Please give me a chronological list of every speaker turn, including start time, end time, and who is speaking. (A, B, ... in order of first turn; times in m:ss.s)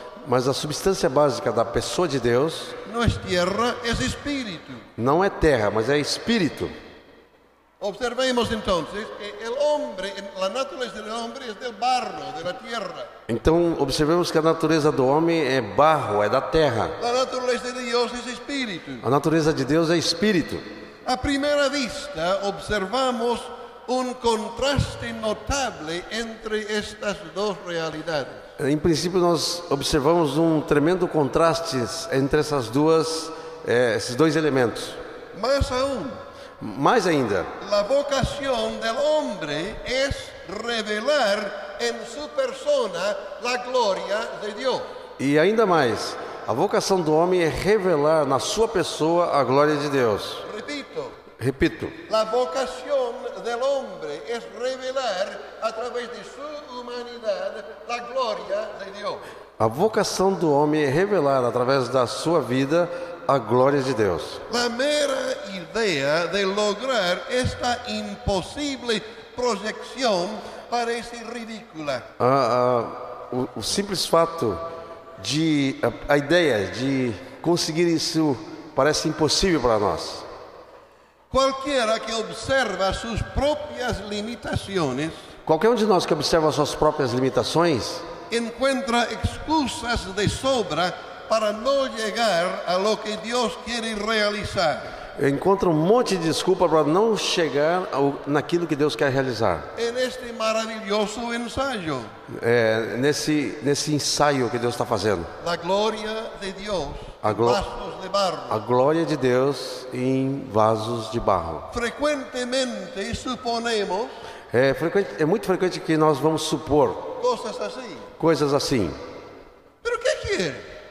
0:00.2-0:02.8 A
0:02.8-0:04.9 B
0:05.0-0:06.7 A
0:07.8-0:13.1 B
0:13.3-0:17.0 A
0:17.0-0:19.0 B
0:19.0-0:20.6 A
0:21.0-0:28.4 B
0:28.6-0:35.0 A
0:35.3-0:36.2 B
0:36.6-0:37.5 A
0:37.6-0:44.9 B
0:45.2-0:50.4 A
0:50.4-0:51.2 B
0:51.4-0:52.0 A
0:52.1-0:59.2 B
0:59.6-1:04.4 A
1:04.5-1:12.1 B
1:12.2-1:14.6 A
1:15.2-1:20.3 A
1:21.3-1:25.3 B
1:25.5-1:28.1 A
1:28.3-1:34.9 B
1:35.2-1:39.7 A
1:39.8-1:42.1 B
1:42.3-1:45.3 A
1:45.4-1:48.6 B
1:47.2-1:47.6 A
1:48.5-1:51.7 A
1:51.7-1:54.2 B
1:54.5-1:57.2 A
1:57.2-1:58.1 B
1:58.2-1:59.0 A
1:59.8-2:00.7 B